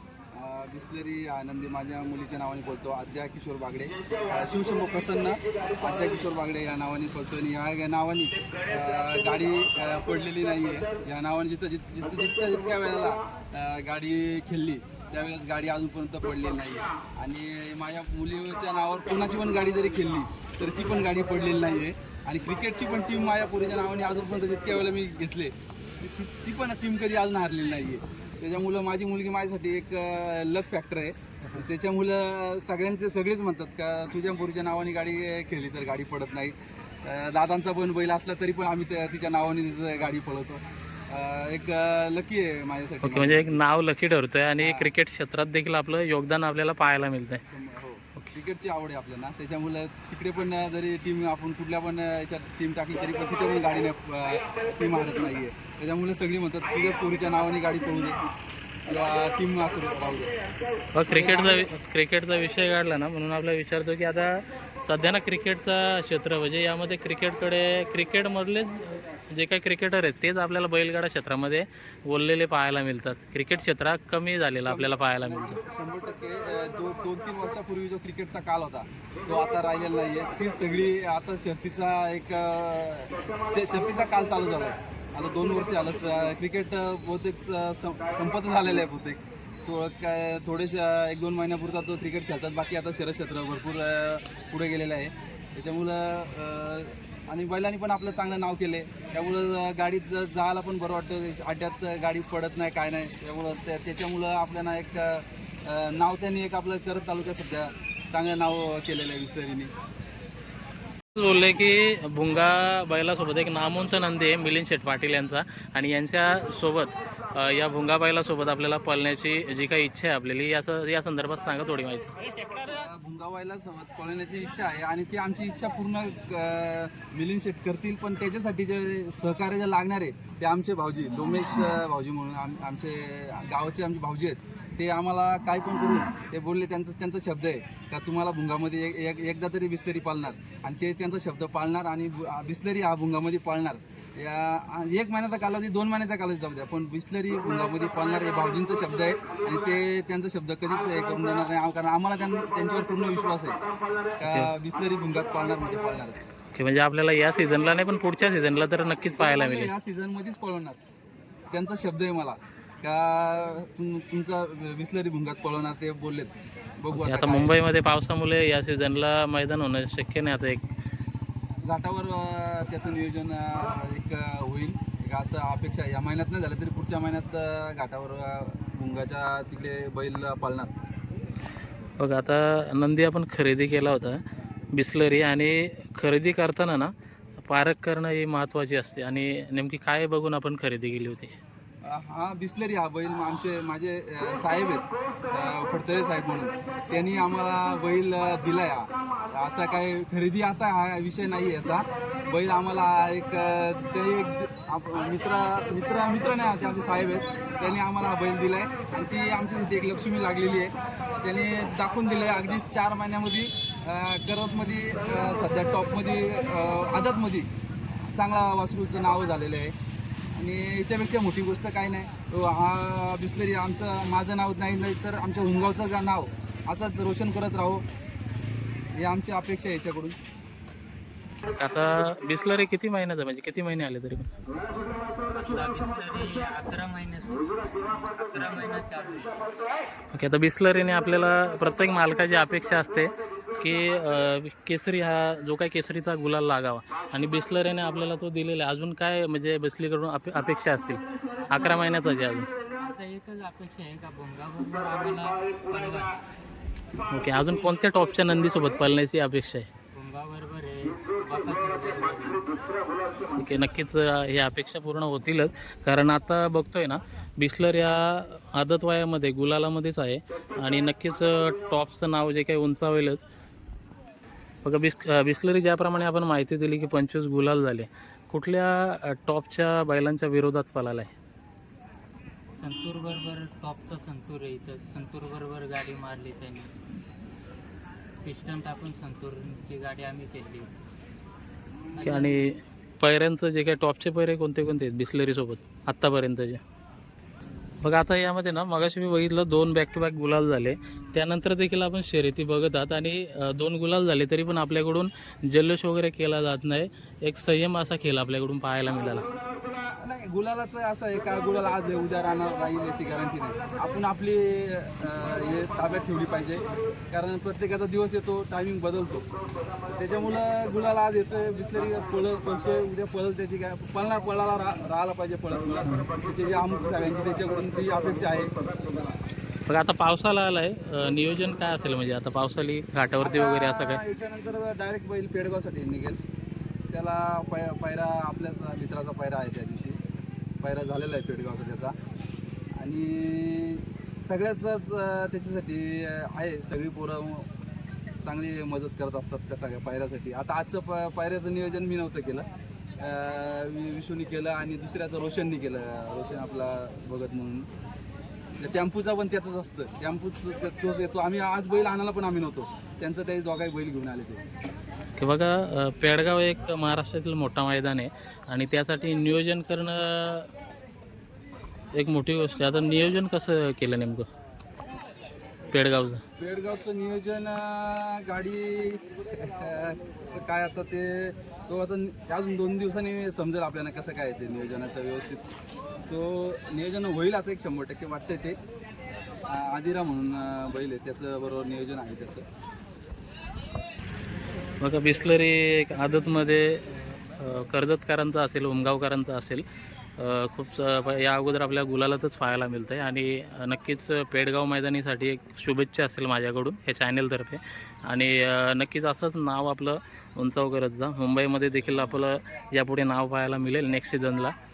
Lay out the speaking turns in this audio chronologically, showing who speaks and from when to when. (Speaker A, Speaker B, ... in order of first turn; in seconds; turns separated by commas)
Speaker A: 0.3-43.6, Speaker B: 43.0-47.4, Speaker A: 44.6-44.9, Speaker A: 47.5-58.2, Speaker A: 58.9-60.3, Speaker B: 60.9-75.6, Speaker A: 61.1-61.7, Speaker A: 74.6-109.7, Speaker B: 111.1-122.1, Speaker A: 122.7-153.6, Speaker A: 154.2-156.3, Speaker B: 156.5-159.7, Speaker A: 159.2-160.8, Speaker A: 161.5-167.6, Speaker B: 166.9-170.6, Speaker A: 171.7-180.7, Speaker B: 182.0-191.3, Speaker A: 191.8-217.5, Speaker A: 218.1-219.7, Speaker A: 220.3-227.8, Speaker A: 228.9-230.1, Speaker B: 231.5-234.3, Speaker C: 235.3-239.5, Speaker B: 240.1-252.5, Speaker C: 251.4-252.0, Speaker C: 252.8-256.3, Speaker B: 257.1-259.7, Speaker C: 259.9-262.5, Speaker B: 263.3-273.2, Speaker B: 274.6-281.1, Speaker C: 282.5-286.7, Speaker C: 288.2-290.7, Speaker C: 291.9-292.4, Speaker B: 292.0-296.6, Speaker B: 297.8-309.2, Speaker A: 310.0-319.2, Speaker A: 319.9-328.5, Speaker B: 329.7-334.0, Speaker A: 333.2-336.2, Speaker A: 336.9-340.0, Speaker A: 340.6-341.9, Speaker A: 342.8-347.5, Speaker A: 348.2-352.5, Speaker A: 353.0-357.7, Speaker A: 358.6-364.4, Speaker B: 365.2-370.5, Speaker B: 371.9-374.3, Speaker B: 375.7-376.2, Speaker A: 376.4-385.4, Speaker A: 386.1-388.6, Speaker A: 389.5-392.4, Speaker B: 394.8-399.6, Speaker B: 400.2-414.5